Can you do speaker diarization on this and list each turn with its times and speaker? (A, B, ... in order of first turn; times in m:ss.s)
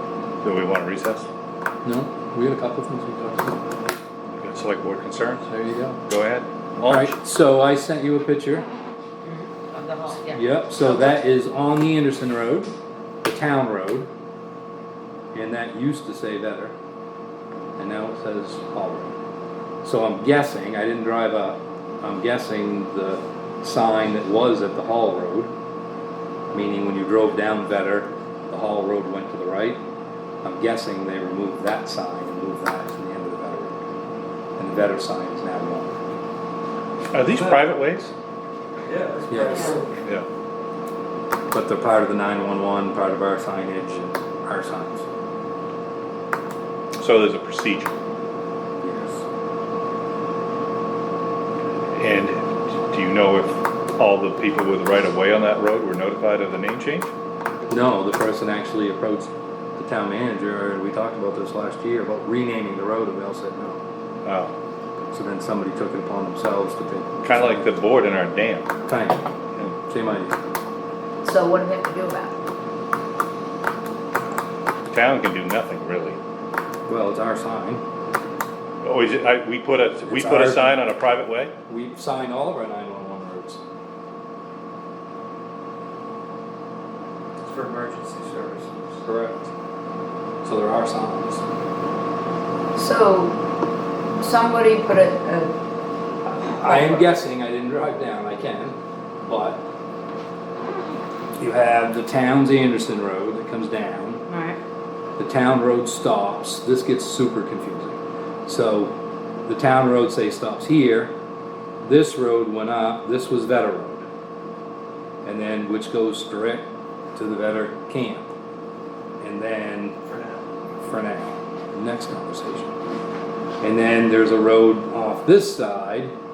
0:00.4-0:01.3 A
0:01.8-0:03.6 B
0:04.4-0:05.4 A
0:05.4-0:06.0 B
0:06.1-0:07.2 A
0:06.8-0:08.6 B
0:09.2-0:11.1 C
0:10.3-0:12.7 B
0:13.2-0:14.1 B
0:15.3-0:16.7 B
0:17.8-0:19.1 B
0:19.8-0:25.5 B
0:26.5-0:29.8 B
0:30.4-0:33.8 B
0:34.6-0:36.2 B
0:37.1-0:38.1 A
0:37.3-0:37.8 D
0:38.8-0:39.9 D
0:39.3-0:39.8 B
0:39.5-0:39.8 C
0:41.5-0:45.1 B
0:47.0-0:47.9 A
0:48.8-0:49.2 B
0:52.0-0:57.1 A
0:57.7-1:03.8 B
1:04.2-1:04.5 A
1:05.1-1:07.7 B
1:07.2-1:08.7 A
1:08.9-1:09.2 B
1:09.8-1:10.4 B
1:11.2-1:12.4 C
1:14.9-1:16.2 A
1:16.9-1:17.8 B
1:18.8-1:21.5 A
1:20.0-1:20.8 B
1:21.7-1:23.6 B
1:27.4-1:28.9 D
1:29.0-1:29.5 B
1:30.4-1:31.4 B
1:32.8-1:33.4 C
1:34.2-1:35.5 C
1:36.3-1:38.8 B
1:36.4-1:37.0 C
1:39.3-1:39.6 B
1:41.4-1:44.2 B
1:44.3-1:44.6 C
1:45.2-1:48.9 B
1:49.5-1:51.1 B
1:51.8-1:54.0 B
1:55.2-1:58.3 B
1:59.2-2:00.0 B
2:00.0-2:00.4 D
2:00.8-2:02.7 B
2:03.6-2:06.1 B